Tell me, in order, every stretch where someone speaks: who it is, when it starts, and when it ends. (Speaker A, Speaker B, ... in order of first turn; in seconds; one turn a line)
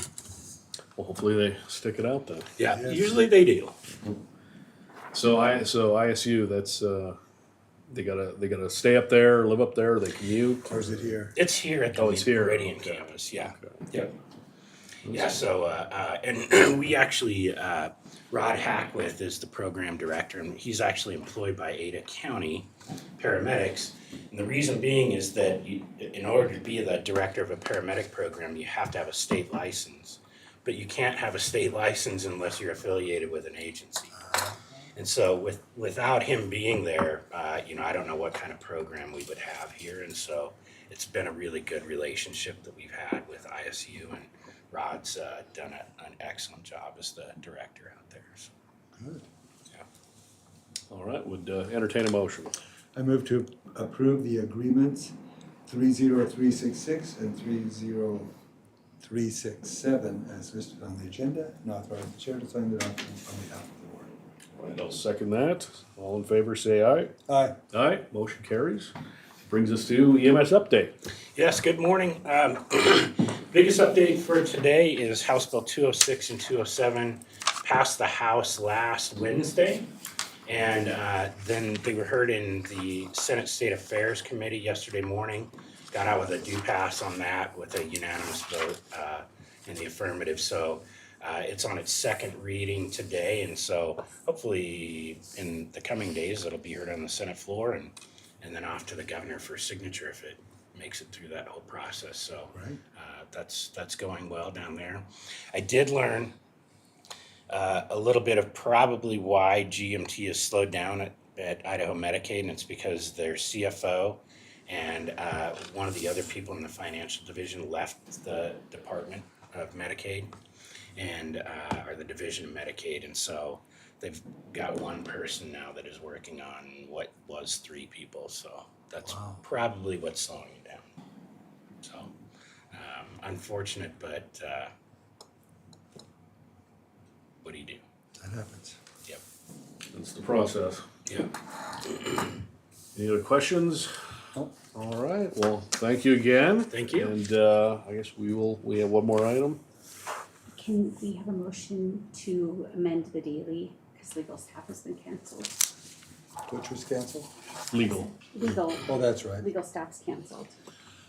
Speaker A: 1.0-2.5
Speaker B: 2.6-3.8
Speaker C: 2.7-3.1
Speaker A: 5.1-7.2
Speaker A: 7.9-11.1
Speaker C: 10.7-11.3
Speaker B: 11.3-14.1
Speaker A: 11.9-13.9
Speaker A: 15.1-15.3
Speaker B: 15.1-34.2
Speaker C: 34.2-34.6
Speaker B: 35.0-48.5
Speaker C: 49.0-49.2
Speaker A: 50.9-52.5
Speaker C: 53.0-55.1
Speaker C: 55.7-58.3
Speaker C: 59.0-64.1
Speaker A: 64.6-67.1
Speaker C: 67.3-67.6
Speaker A: 67.7-68.9
Speaker A: 69.5-71.0
Speaker B: 71.3-79.9
Speaker B: 80.5-106.3
Speaker C: 102.5-102.8
Speaker B: 107.5-120.3
Speaker B: 121.0-130.9
Speaker C: 129.0-129.4
Speaker B: 131.8-132.1
Speaker B: 132.7-134.7
Speaker B: 137.4-137.8
Speaker C: 138.2-138.8
Speaker A: 139.9-140.9
Speaker B: 141.1-141.3
Speaker A: 142.9-143.9
Speaker A: 144.7-149.6
Speaker B: 146.7-147.2
Speaker D: 150.5-155.7
Speaker C: 156.5-157.3
Speaker A: 157.7-158.1
Speaker D: 158.1-160.6
Speaker C: 158.8-159.5